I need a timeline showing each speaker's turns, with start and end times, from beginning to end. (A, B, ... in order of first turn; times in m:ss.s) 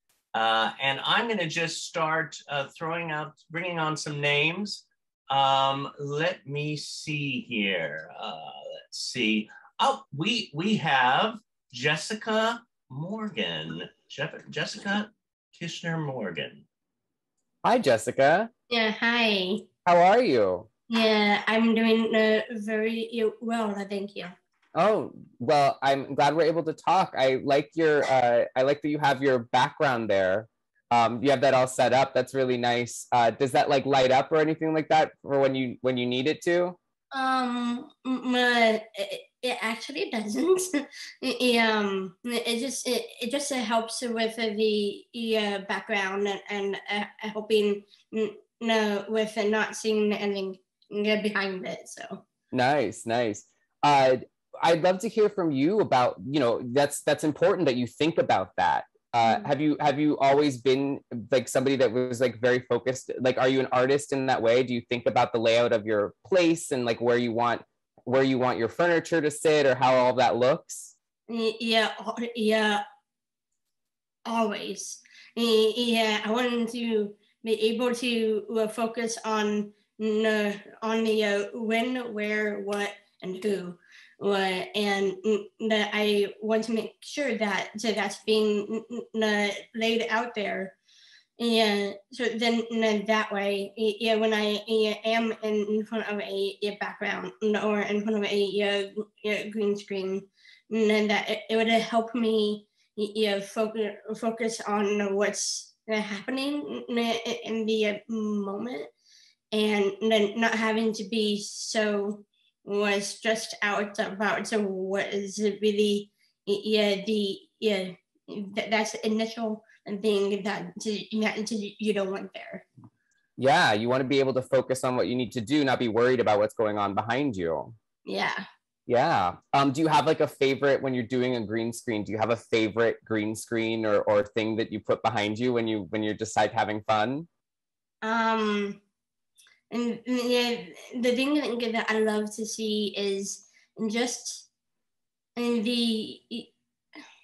0:00.3-0:16.6 A
0:17.6-0:18.5 B
0:18.7-0:19.6 C
0:19.8-0:20.7 B
0:20.9-0:24.3 C
0:24.7-0:36.8 B
0:37.1-0:52.2 C
0:52.5-1:10.9 B
0:59.2-0:59.5 C
1:11.3-1:12.8 C
1:14.2-1:30.7 C
1:31.4-1:48.9 C
1:49.5-2:02.6 C
2:03.4-2:07.8 B
2:08.0-2:08.4 C
2:08.9-2:17.3 B
2:18.0-2:18.8 C
2:19.7-2:24.5 C
2:25.4-2:26.5 C